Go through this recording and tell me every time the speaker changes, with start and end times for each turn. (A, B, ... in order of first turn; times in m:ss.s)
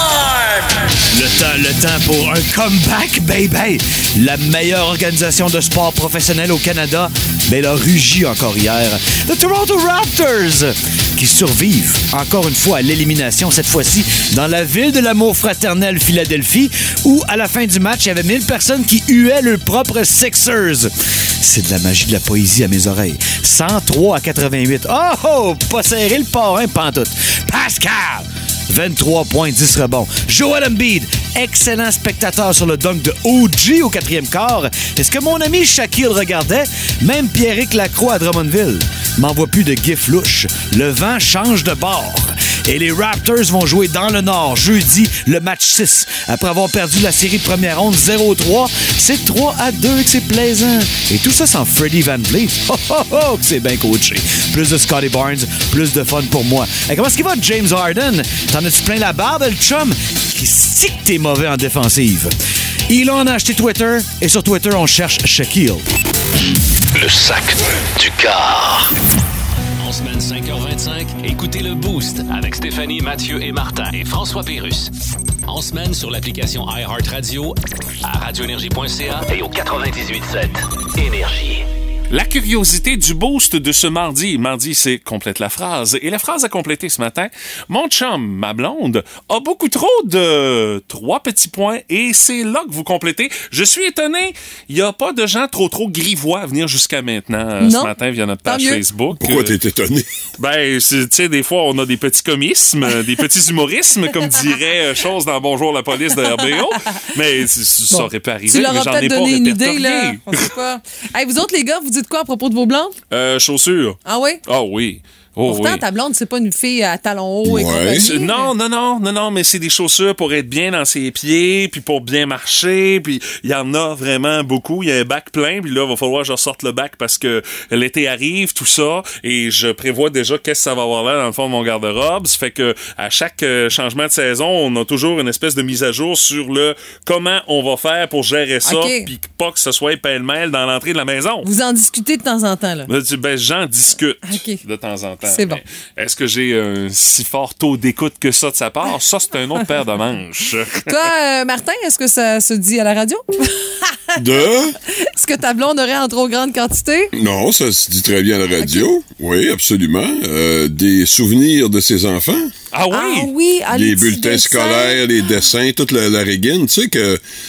0:01.1-1:02.3 A
1:02.9-1:05.8 A
1:06.9-1:08.9 B
1:09.8-1:14.9 B
1:15.5-1:21.7 B
1:22.1-1:39.6 C
1:37.6-1:37.9 D
1:38.4-1:38.8 D
1:39.2-1:40.1 E
1:40.4-1:50.5 C
1:47.9-1:53.0 D
1:53.1-1:55.8 C
1:54.0-1:54.4 D
1:55.5-1:58.5 D
1:57.4-1:58.1 E
1:58.0-2:21.5 C
2:18.6-2:19.1 D
2:21.4-2:22.9 D
2:22.9-2:30.9 C
2:24.3-2:24.6 D
2:25.2-2:25.6 D
2:30.9-2:37.1 D
2:34.2-2:34.8 E
2:37.1-2:42.5 E
2:38.6-2:38.9 D
2:42.7-2:43.3 C
2:42.9-2:45.1 D
2:43.7-2:47.2 E